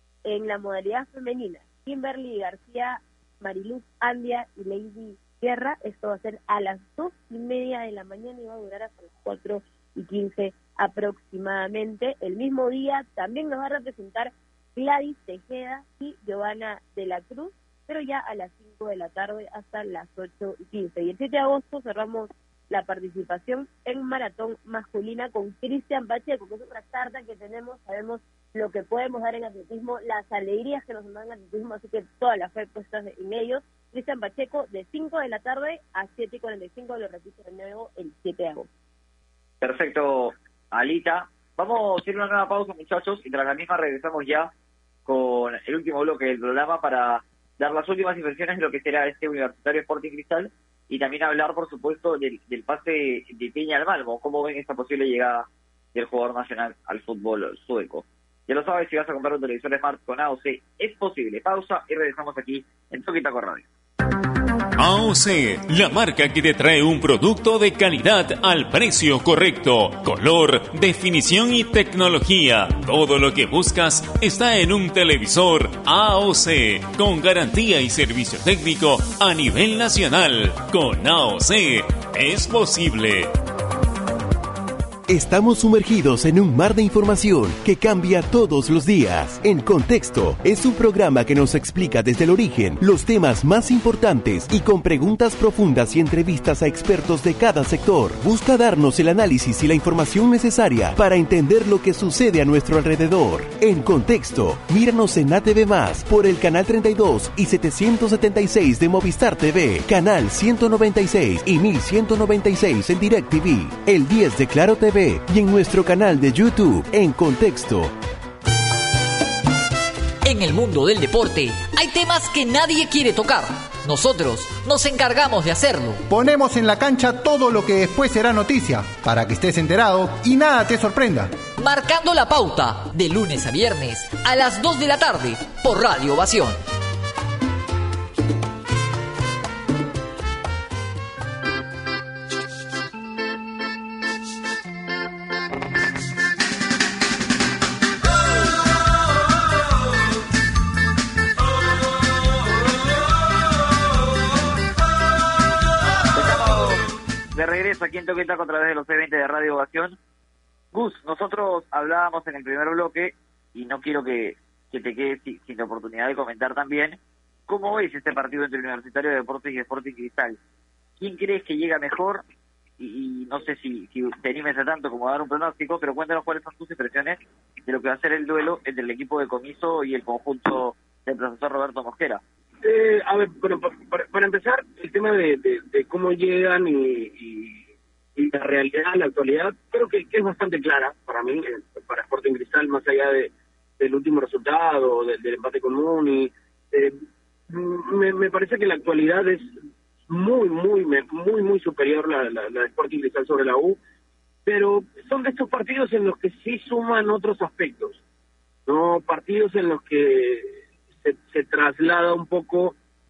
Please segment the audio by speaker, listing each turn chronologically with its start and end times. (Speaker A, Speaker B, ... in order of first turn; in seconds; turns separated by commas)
Speaker A: 0.2-38.7, Speaker B: 39.6-44.5, Speaker B: 45.0-63.7, Speaker C: 64.8-83.3, Speaker D: 85.1-117.9, Speaker E: 120.2-126.0, Speaker F: 126.1-131.3, Speaker E: 131.6-136.6, Speaker B: 156.1-160.0, Speaker B: 160.7-170.4, Speaker B: 171.0-172.2, Speaker B: 172.8-182.2, Speaker G: 182.6-187.6, Speaker G: 188.2-199.5, Speaker G: 200.1-203.8, Speaker G: 204.4-208.0, Speaker G: 208.7-212.8